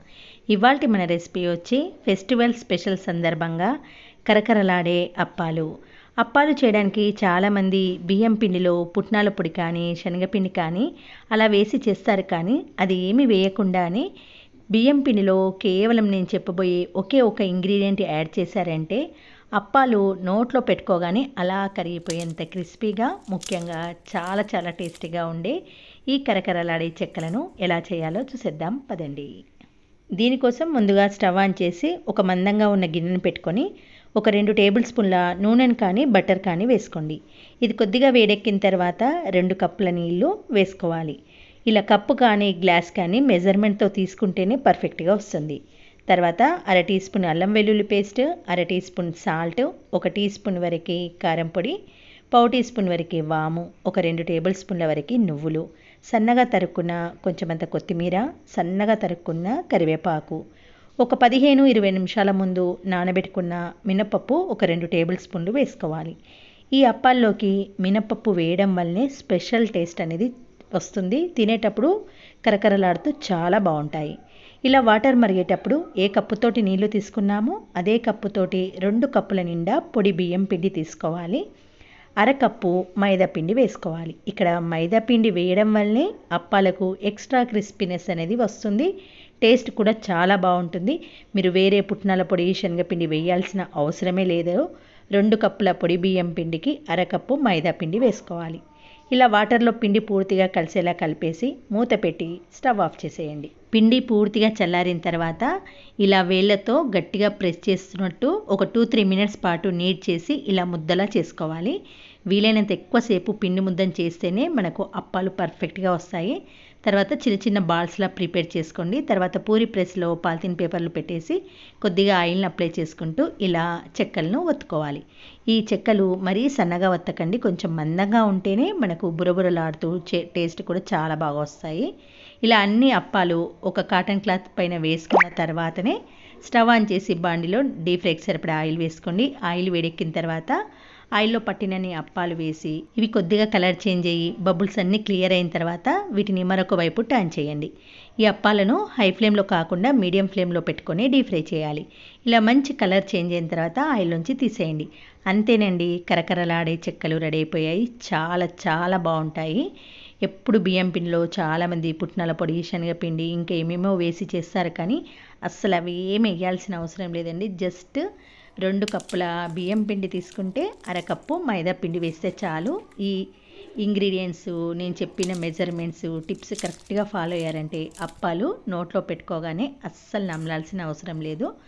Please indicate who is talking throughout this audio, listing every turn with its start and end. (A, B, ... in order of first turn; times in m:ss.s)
0:00.5-0:03.7 A
0:04.3-0:05.7 A
0:06.2-0:14.1 A
0:14.7-0:19.0 A
0:19.6-0:25.6 A
0:26.1-0:29.3 A
0:30.2-0:33.7 A
0:34.2-0:41.2 A
0:41.7-0:51.8 A
0:52.3-1:00.4 A
1:01.0-1:06.2 A
1:06.8-1:11.9 A
1:12.4-1:14.2 A
1:14.7-1:21.4 A
1:22.2-1:28.9 A
1:29.4-1:34.6 A
1:35.2-1:38.6 A
1:39.1-1:45.5 A
1:46.0-1:51.8 A
1:52.3-2:11.9 A
2:12.4-2:20.6 A
2:21.2-2:27.7 A
2:28.2-2:39.6 A
2:40.2-2:48.0 A
2:48.6-2:53.2 A
2:53.8-3:01.5 A